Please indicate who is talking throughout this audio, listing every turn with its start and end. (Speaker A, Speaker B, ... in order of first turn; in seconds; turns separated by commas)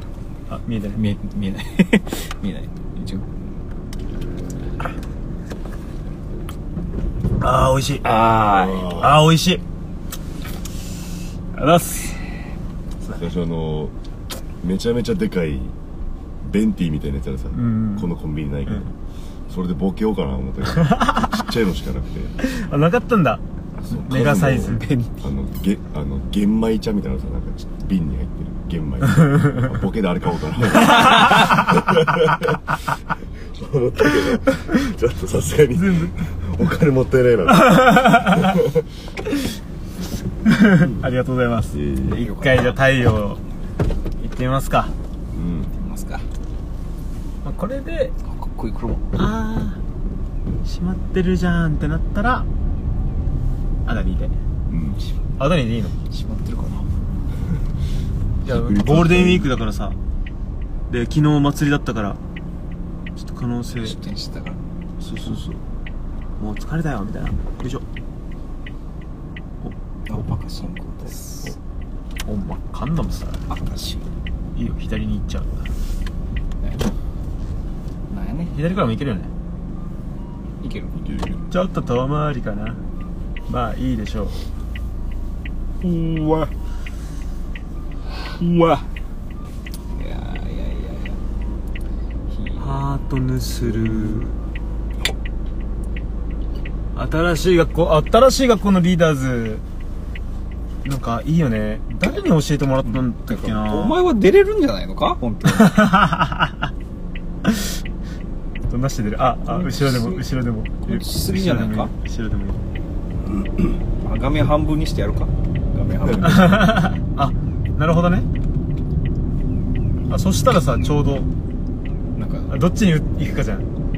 Speaker A: 0.5-1.0, Speaker B: 0.9-3.3, Speaker A: 7.4-8.1, Speaker B: 8.0-8.9, Speaker C: 8.4-9.2, Speaker A: 8.8-9.6, Speaker A: 11.5-12.2, Speaker C: 13.1-13.9, Speaker C: 14.6-15.8, Speaker C: 16.4-18.9, Speaker A: 17.5-18.1, Speaker C: 19.5-22.3, Speaker A: 20.8-21.3, Speaker A: 22.4-25.1, Speaker C: 23.8-32.6, Speaker A: 30.8-31.8, Speaker C: 33.4-38.9, Speaker A: 35.7-36.1, Speaker A: 37.5-38.6, Speaker A: 40.4-43.4, Speaker C: 41.7-42.1, Speaker B: 42.0-42.8, Speaker A: 44.2-44.9, Speaker C: 45.3-45.7, Speaker B: 45.7-46.2, Speaker A: 47.4-48.1, Speaker B: 48.2-49.1, Speaker A: 49.1-49.8, Speaker A: 50.6-52.5, Speaker A: 53.9-54.3, Speaker C: 54.7-55.0, Speaker A: 55.4-56.0, Speaker B: 56.1-56.9, Speaker C: 58.4-59.5, Speaker A: 58.4-60.0, Speaker A: 60.9-62.2, Speaker A: 63.1-64.0, Speaker B: 63.7-64.6, Speaker A: 65.0-65.6, Speaker A: 66.4-67.8, Speaker A: 69.6-70.2, Speaker B: 70.1-71.5, Speaker A: 72.2-73.5, Speaker B: 73.5-74.0, Speaker A: 74.5-75.8, Speaker B: 76.6-76.9, Speaker B: 78.1-78.6, Speaker A: 78.5-79.3, Speaker B: 80.6-81.0, Speaker C: 81.0-81.4, Speaker A: 81.5-82.8, Speaker A: 83.5-84.3, Speaker B: 85.8-86.5, Speaker B: 88.4-88.8, Speaker B: 89.9-91.2, Speaker B: 92.3-92.9, Speaker A: 92.6-94.3, Speaker B: 93.6-94.3, Speaker A: 96.9-99.6, Speaker A: 100.8-104.0, Speaker B: 102.8-105.8, Speaker A: 105.5-106.7, Speaker A: 107.4-107.7, Speaker A: 108.7-112.6, Speaker B: 109.5-110.2, Speaker B: 110.8-111.9, Speaker B: 114.0-116.9, Speaker A: 116.1-118.3, Speaker A: 120.1-121.3, Speaker B: 122.2-122.5, Speaker A: 122.5-123.7